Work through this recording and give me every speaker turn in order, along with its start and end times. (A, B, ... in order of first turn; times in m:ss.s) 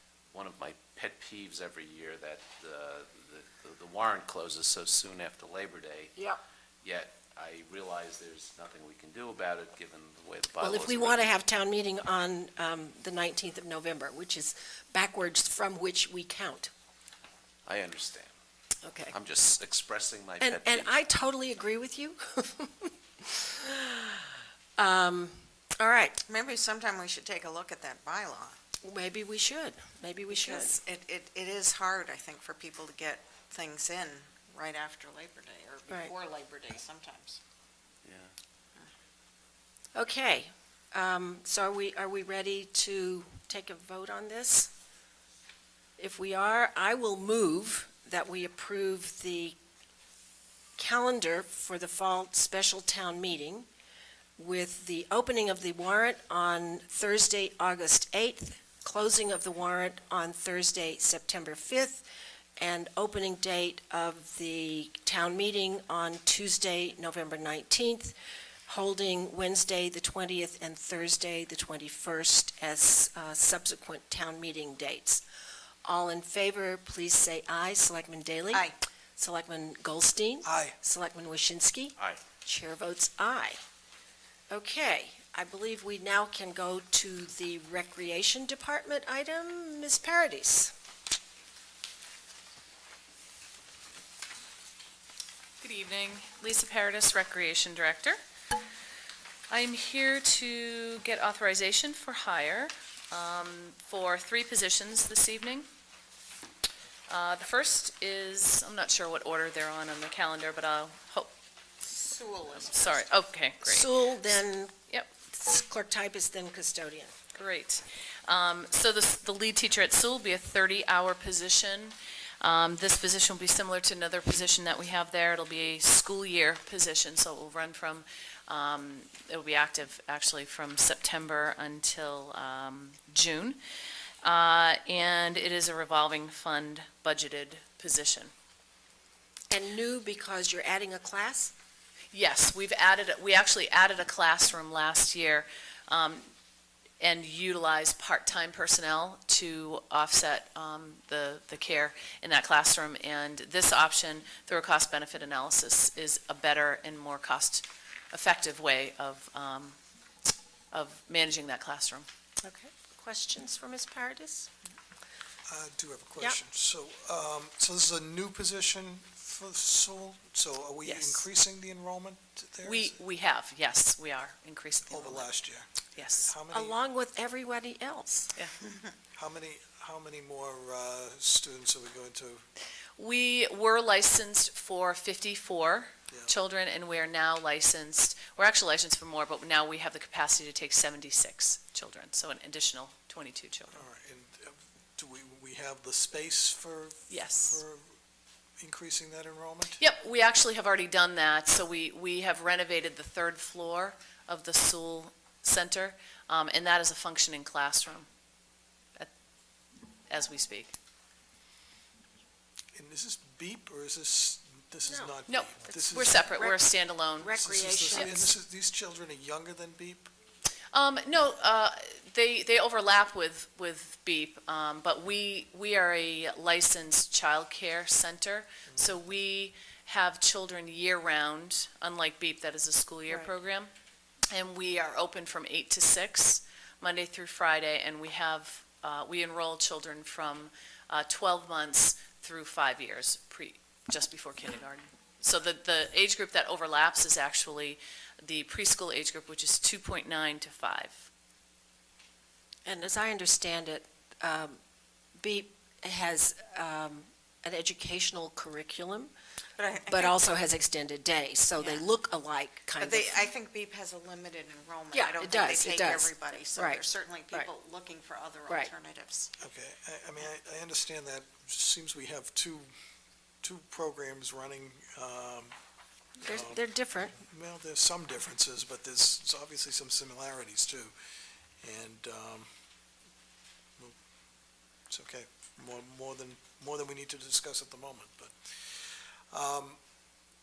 0:00.3-0:06.1 A
0:06.8-0:11.4 A
0:10.6-0:16.7 B
0:17.6-0:18.3 A
0:18.8-0:19.2 B
0:19.1-0:20.9 A
0:20.4-0:24.2 B
0:24.8-0:26.2 B
0:26.2-0:28.6 C
0:28.8-0:30.8 B
0:30.3-0:37.4 C
0:38.0-0:38.3 A
0:39.9-0:44.7 B
0:46.0-0:49.6 B
0:50.8-0:53.7 B
0:54.4-1:02.1 B
1:02.6-1:08.1 B
1:08.7-1:15.2 B
1:15.8-1:23.6 B
1:20.4-1:20.8 D
1:24.5-1:30.7 B
1:35.6-1:38.2 E
1:39.5-1:45.7 E
1:47.1-1:51.3 E
1:51.8-1:53.2 C
1:52.5-1:53.9 E
1:53.6-1:54.7 B
1:55.3-1:57.1 B
1:57.3-2:13.6 E
2:14.2-2:18.3 E
2:19.5-2:21.5 B
2:22.1-2:26.3 E
2:27.0-2:39.8 E
2:40.7-2:42.0 E
2:42.4-2:44.5 B
2:45.5-2:53.0 D
2:50.8-2:51.2 E
2:52.6-2:55.3 E
2:54.9-2:56.8 D
2:55.9-2:56.3 E
2:56.5-2:58.3 B
2:59.2-3:02.4 D
3:03.0-3:13.8 E
3:13.7-3:17.9 D
3:17.1-3:17.6 E
3:18.6-3:19.8 D
3:19.8-3:28.1 E
3:30.1-3:30.7 E
3:32.7-3:36.4 D
3:34.8-3:35.1 B
3:35.3-3:37.4 E
3:36.0-3:36.6 B
3:37.2-3:38.3 B
3:37.3-3:40.1 D
3:37.9-3:38.1 E
3:40.7-3:53.7 E
3:48.7-3:49.0 D
3:54.3-4:11.1 E
4:12.6-4:14.6 B
4:15.2-4:19.1 B
4:19.6-4:20.2 C
4:19.9-4:23.2 B
4:21.6-4:21.8 C
4:22.8-4:29.3 C
4:24.9-4:27.5 B
4:29.4-4:32.7 D
4:33.4-4:35.5 D
4:36.2-4:37.2 B
4:36.2-4:36.6 D
4:37.1-4:40.9 D
4:41.6-4:42.5 D
4:44.9-4:49.8 D